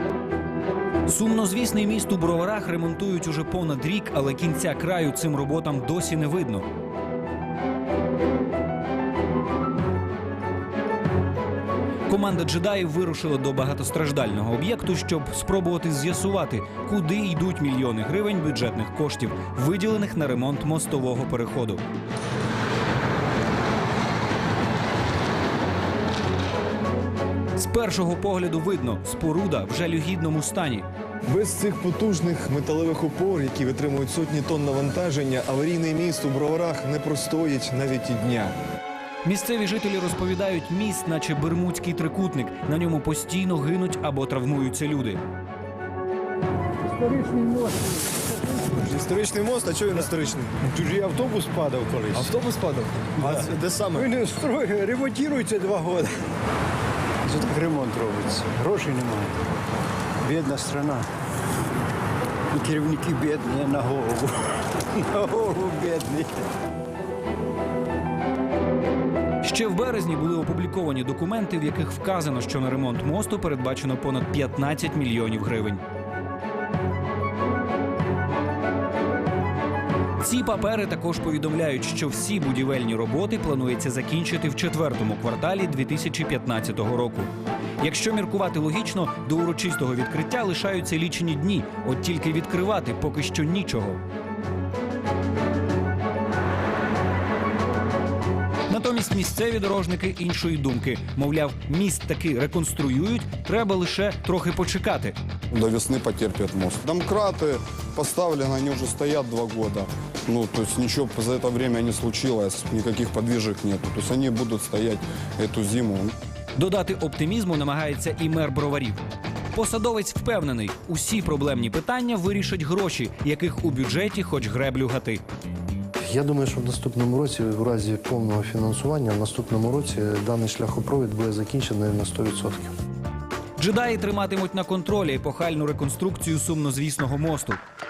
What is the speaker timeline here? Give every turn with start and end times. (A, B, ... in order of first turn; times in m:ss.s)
0:01.1-0:06.6 A
0:12.1-0:21.8 A
0:27.6-0:30.9 A
0:31.2-0:38.5 B
0:39.2-0:45.2 A
0:47.0-0:47.8 C
0:48.6-0:50.5 B
0:50.6-0:52.3 C
0:52.1-0:54.1 B
0:53.2-0:56.1 C
0:57.2-0:59.4 C
1:00.2-1:01.1 C
1:02.5-1:06.4 C
1:09.4-1:15.8 A
1:20.2-1:34.0 A
1:38.7-1:45.2 A
1:45.5-1:56.1 D
1:56.6-1:59.0 A
1:59.5-2:05.2 A
2:06.0-2:12.7 E
2:13.6-2:17.6 A